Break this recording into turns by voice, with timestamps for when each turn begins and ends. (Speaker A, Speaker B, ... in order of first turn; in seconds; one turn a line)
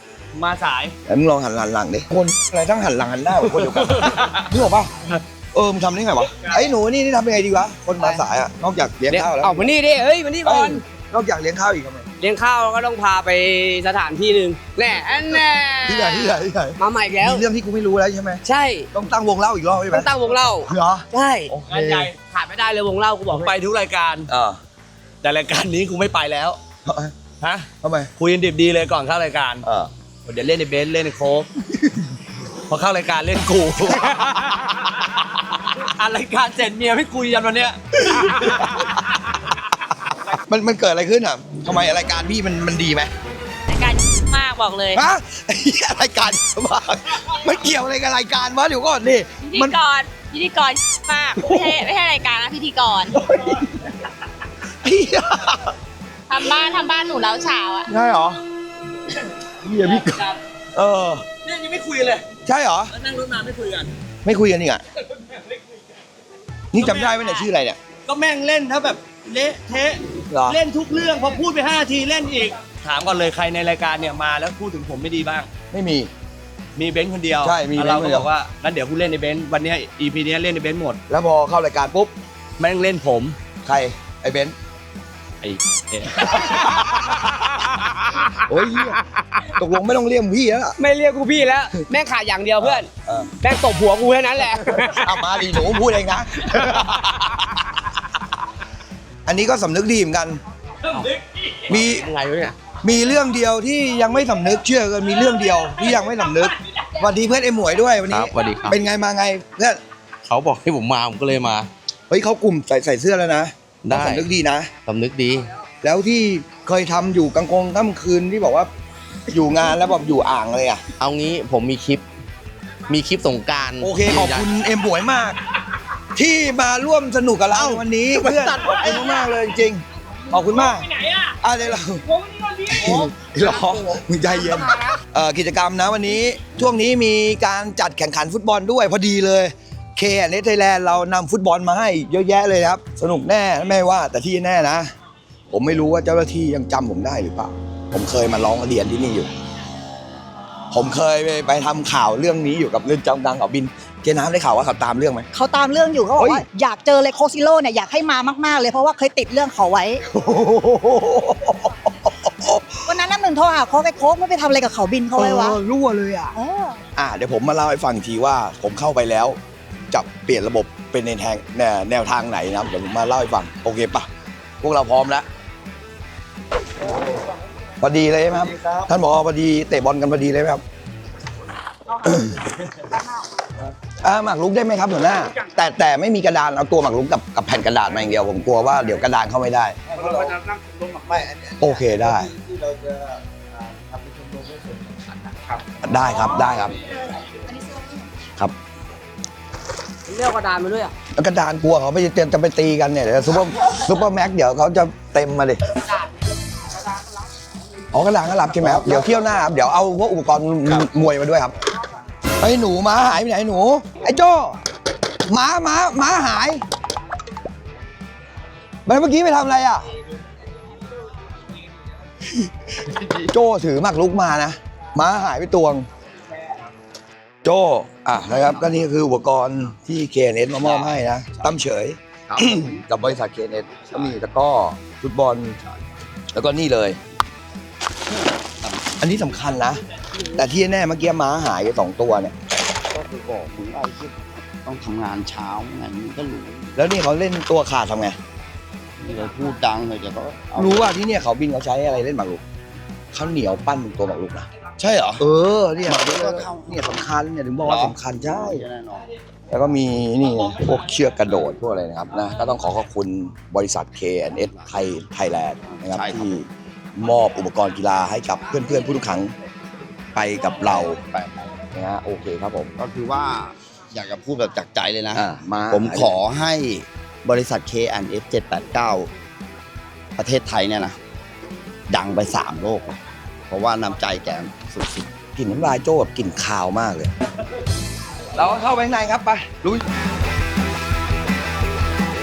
Speaker A: 0.3-1.0
Speaker B: 1.1-4.9
Speaker A: 3.6-4.4
Speaker B: 5.5-9.7
Speaker C: 9.1-10.8
Speaker B: 10.4-12.1
Speaker C: 12.2-17.4
Speaker B: 15.8-22.1
Speaker C: 18.4-18.9
Speaker C: 19.9-21.5
Speaker A: 21.7-22.1
Speaker C: 22.2-23.5
Speaker A: 23.3-24.3
Speaker B: 24.3-24.6
Speaker A: 25.2-26.6
Speaker B: 26.9-27.1
Speaker A: 27.4-29.6
Speaker B: 27.8-28.1
Speaker B: 29.6-29.9
Speaker A: 30.2-31.5
Speaker A: 32.7-37.8
Speaker B: 38.0-38.9
Speaker A: 38.4-38.7
Speaker B: 40.5-43.1
Speaker D: 43.7-45.0
Speaker B: 44.9-49.8
Speaker D: 49.4-53.2
Speaker B: 53.2-53.6
Speaker B: 54.8-55.7
Speaker D: 56.3-57.9
Speaker B: 57.9-58.4
Speaker B: 59.6-60.2
Speaker B: 60.8-61.2
Speaker A: 61.4-62.2
Speaker B: 62.4-62.9
Speaker A: 62.9-63.9
Speaker B: 64.2-64.8
Speaker B: 66.7-67.8
Speaker D: 67.1-67.4
Speaker A: 68.1-75.5
Speaker B: 70.3-70.6
Speaker B: 75.7-76.1
Speaker A: 76.8-81.0
Speaker B: 77.4-78.3
Speaker B: 81.1-82.1
Speaker A: 82.6-83.4
Speaker B: 83.6-84.5
Speaker A: 85.4-86.6
Speaker B: 88.5-90.8
Speaker C: 90.8-95.2
Speaker B: 92.6-93.3
Speaker B: 94.7-97.3
Speaker B: 99.2-100.4
Speaker B: 101.7-102.1
Speaker E: 101.7-102.6
Speaker B: 102.8-109.8
Speaker E: 108.1-108.8
Speaker E: 110.2-111.7
Speaker B: 112.1-114.7
Speaker E: 113.8-114.2
Speaker E: 114.9-115.4
Speaker B: 115.8-118.7
Speaker B: 119.3-120.8
Speaker E: 121.0-122.0
Speaker E: 122.9-124.5
Speaker B: 123.8-125.4
Speaker B: 126.1-130.9
Speaker E: 127.5-128.5
Speaker B: 131.4-132.1
Speaker B: 132.7-144.9
Speaker B: 145.5-149.3
Speaker B: 150.7-155.3
Speaker F: 155.3-160.0
Speaker B: 156.2-156.4
Speaker B: 160.1-162.8
Speaker F: 162.9-165.6
Speaker B: 165.1-166.3
Speaker F: 166.4-166.8
Speaker B: 166.9-169.4
Speaker B: 169.9-174.1
Speaker B: 174.6-175.3
Speaker B: 177.8-180.6
Speaker G: 178.4-178.9
Speaker B: 182.0-182.4
Speaker B: 184.0-190.1
Speaker G: 189.9-196.0
Speaker B: 191.6-192.3
Speaker B: 195.8-196.8
Speaker C: 200.1-200.9
Speaker B: 201.2-205.6
Speaker B: 207.9-211.5
Speaker B: 212.4-214.6
Speaker B: 215.3-216.6
Speaker B: 218.9-219.9
Speaker G: 222.9-223.3
Speaker B: 223.3-225.9
Speaker B: 227.4-235.6
Speaker G: 230.6-231.6
Speaker G: 232.3-233.2
Speaker G: 233.8-234.1
Speaker B: 236.3-237.0
Speaker G: 238.1-238.8
Speaker B: 239.0-239.8
Speaker B: 240.3-242.3
Speaker G: 242.9-246.8
Speaker B: 246.8-248.2
Speaker G: 249.0-250.9
Speaker B: 250.6-252.4
Speaker B: 253.1-254.5
Speaker G: 254.8-255.2
Speaker B: 255.2-258.6
Speaker G: 255.8-257.1
Speaker G: 257.6-259.1
Speaker B: 259.5-269.3
Speaker G: 265.7-266.4
Speaker B: 270.1-271.0
Speaker G: 270.6-271.5
Speaker B: 271.8-272.7
Speaker G: 272.8-279.1
Speaker B: 275.1-276.2
Speaker G: 280.2-280.9
Speaker G: 281.9-285.1
Speaker B: 285.4-287.1
Speaker B: 288.4-289.8